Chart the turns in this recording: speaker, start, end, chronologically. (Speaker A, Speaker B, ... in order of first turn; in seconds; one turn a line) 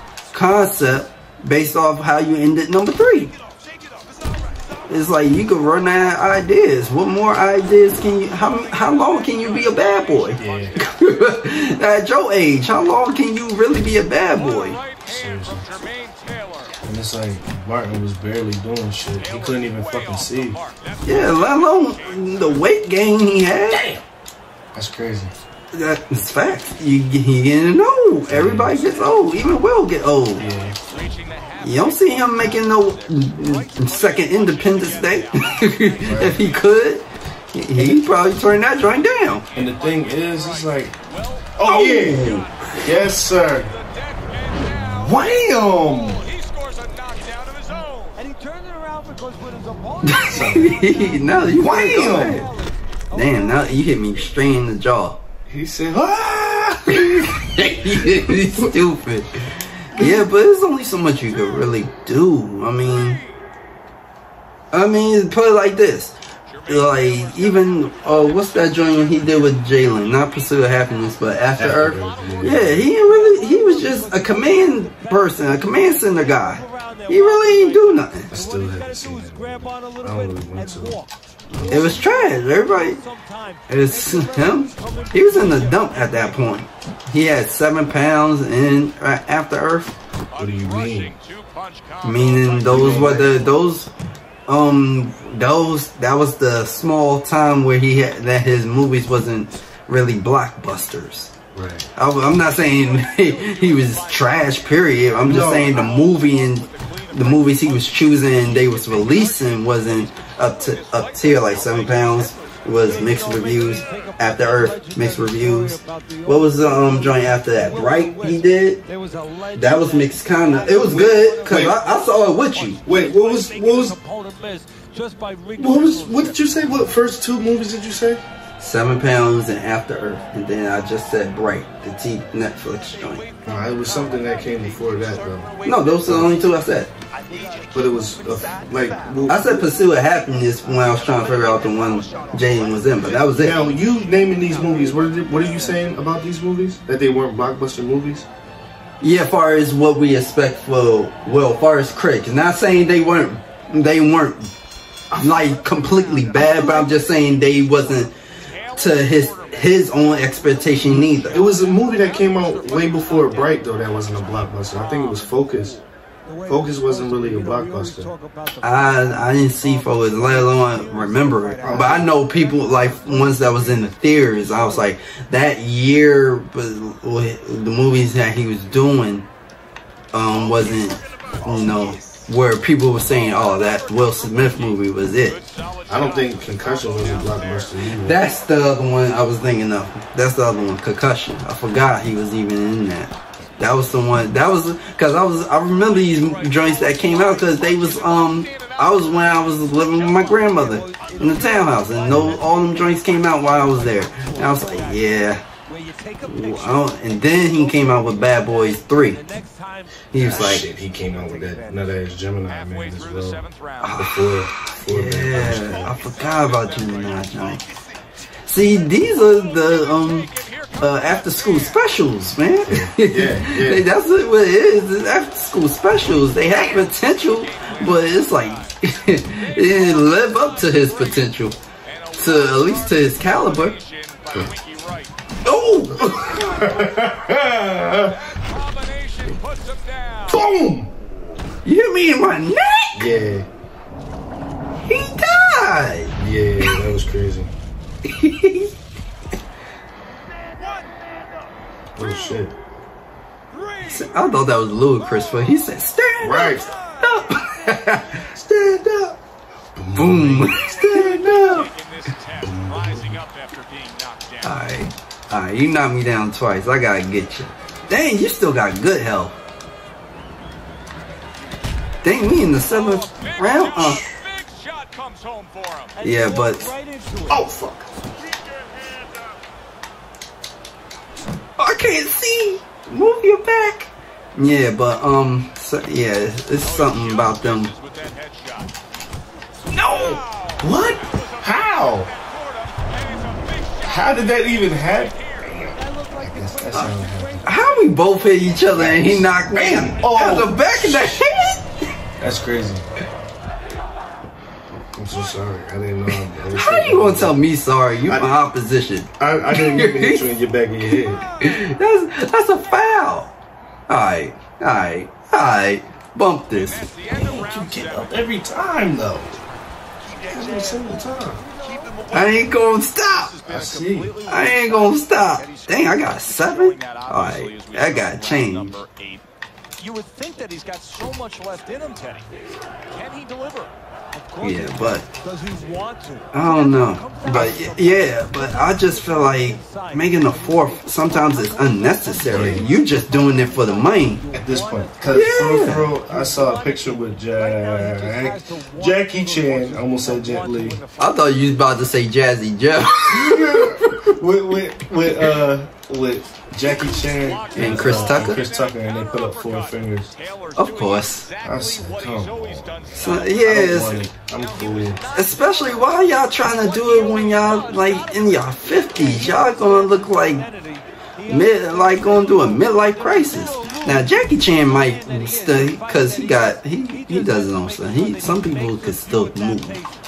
Speaker A: 0.3-3.3
Speaker B: 3.6-4.8
Speaker A: 4.9-14.8
Speaker C: 10.4-10.8
Speaker D: 14.3-16.8
Speaker C: 15.1-15.7
Speaker C: 16.8-20.6
Speaker D: 19.1-22.8
Speaker A: 21.1-23.9
Speaker C: 23.7-24.0
Speaker C: 24.7-25.3
Speaker A: 25.7-30.5
Speaker C: 28.3-28.8
Speaker C: 30.4-30.8
Speaker D: 30.9-36.7
Speaker A: 31.6-39.5
Speaker C: 36.0-36.4
Speaker D: 39.5-48.2
Speaker C: 39.5-41.0
Speaker C: 41.5-42.3
Speaker A: 41.6-42.8
Speaker C: 42.8-43.7
Speaker C: 44.6-46.3
Speaker B: 48.2-54.3
Speaker A: 50.1-52.5
Speaker C: 50.2-50.7
Speaker C: 51.5-52.5
Speaker A: 53.1-55.2
Speaker C: 55.5-58.7
Speaker A: 57.0-59.4
Speaker A: 59.9-63.2
Speaker C: 60.0-60.2
Speaker A: 64.7-66.2
Speaker D: 66.5-70.2
Speaker A: 66.7-78.3
Speaker C: 71.6-72.9
Speaker B: 72.4-86.5
Speaker C: 78.3-81.0
Speaker C: 81.5-82.0
Speaker A: 81.7-83.0
Speaker A: 83.7-89.9
Speaker D: 90.3-93.4
Speaker C: 90.4-91.2
Speaker A: 92.0-93.9
Speaker C: 92.7-93.3
Speaker A: 94.5-101.3
Speaker C: 101.5-101.9
Speaker A: 102.0-118.8
Speaker D: 103.0-114.5
Speaker C: 105.2-105.9
Speaker B: 112.8-126.7
Speaker A: 119.5-122.8
Speaker C: 120.8-121.8
Speaker C: 122.8-124.0
Speaker C: 125.6-128.2
Speaker A: 128.6-133.2
Speaker D: 132.9-136.6
Speaker C: 133.5-135.5
Speaker A: 135.7-136.9
Speaker C: 136.1-136.3
Speaker B: 137.1-139.8
Speaker D: 137.2-138.9
Speaker C: 137.7-139.6
Speaker A: 139.3-143.6
Speaker B: 140.3-145.8
Speaker D: 140.9-145.5
Speaker C: 143.3-148.3
Speaker A: 149.0-154.5
Speaker A: 155.2-158.1
Speaker C: 156.5-156.8
Speaker D: 158.5-165.7
Speaker A: 158.8-161.4
Speaker C: 160.9-165.8
Speaker B: 164.8-165.2
Speaker B: 165.7-174.9
Speaker C: 166.5-168.1
Speaker A: 168.6-179.3
Speaker C: 171.6-172.1
Speaker A: 180.1-185.4
Speaker D: 180.3-182.2
Speaker B: 181.4-181.8
Speaker D: 183.0-188.2
Speaker C: 185.9-188.2
Speaker A: 188.0-205.4
Speaker D: 196.0-201.6
Speaker B: 200.5-202.7
Speaker C: 202.1-202.4
Speaker B: 203.3-212.0
Speaker A: 206.2-209.2
Speaker A: 210.1-210.7
Speaker C: 210.2-213.4
Speaker D: 212.4-214.1
Speaker A: 213.8-217.6
Speaker C: 214.0-216.0
Speaker D: 215.5-217.8
Speaker A: 218.5-231.6
Speaker D: 218.7-222.2
Speaker C: 222.7-223.9
Speaker D: 226.1-231.3
Speaker D: 231.8-235.2
Speaker A: 232.2-233.8
Speaker A: 235.4-236.7
Speaker C: 235.9-238.2
Speaker D: 238.3-240.4
Speaker C: 240.3-240.9
Speaker A: 241.6-243.1
Speaker C: 242.9-243.5
Speaker A: 244.9-246.2
Speaker C: 246.2-247.5
Speaker A: 248.0-248.7
Speaker B: 250.6-251.2
Speaker C: 251.9-252.6
Speaker D: 253.5-254.2
Speaker A: 253.9-258.2
Speaker C: 256.2-256.7
Speaker C: 258.3-259.2
Speaker C: 259.8-261.3
Speaker A: 259.9-261.7
Speaker D: 260.5-264.7
Speaker C: 262.3-263.2
Speaker A: 264.4-269.4
Speaker A: 272.0-274.0
Speaker D: 272.3-275.9
Speaker B: 276.0-277.5
Speaker A: 276.0-276.7
Speaker C: 277.3-277.9
Speaker A: 281.6-287.7
Speaker D: 286.5-288.7
Speaker D: 289.8-295.6
Speaker C: 290.6-292.1
Speaker C: 293.9-297.4
Speaker B: 295.8-297.9
Speaker A: 297.4-301.7
Speaker C: 298.7-301.2
Speaker C: 302.2-302.9
Speaker C: 304.9-307.4
Speaker A: 306.6-310.2
Speaker C: 308.1-308.4
Speaker C: 309.2-311.2
Speaker A: 311.4-313.3
Speaker A: 313.9-316.9
Speaker D: 316.5-319.5
Speaker C: 317.1-319.4
Speaker D: 320.1-321.0
Speaker B: 320.1-322.5
Speaker C: 320.3-321.4
Speaker D: 321.6-329.2
Speaker A: 322.1-323.3
Speaker C: 323.4-324.2
Speaker A: 324.3-328.8
Speaker B: 329.8-331.9
Speaker D: 330.4-332.3
Speaker D: 332.9-333.7
Speaker B: 334.1-351.7
Speaker A: 334.4-335.1
Speaker A: 336.3-344.2
Speaker C: 342.3-342.7
Speaker C: 344.3-350.8
Speaker A: 345.1-345.9
Speaker A: 351.0-354.1
Speaker C: 353.1-360.1
Speaker D: 356.6-366.4
Speaker A: 357.5-358.4
Speaker A: 360.6-361.3
Speaker C: 361.4-365.0
Speaker A: 362.9-364.1
Speaker A: 365.1-370.5
Speaker B: 366.4-379.9
Speaker D: 367.2-367.7
Speaker A: 371.3-379.8
Speaker D: 377.4-378.9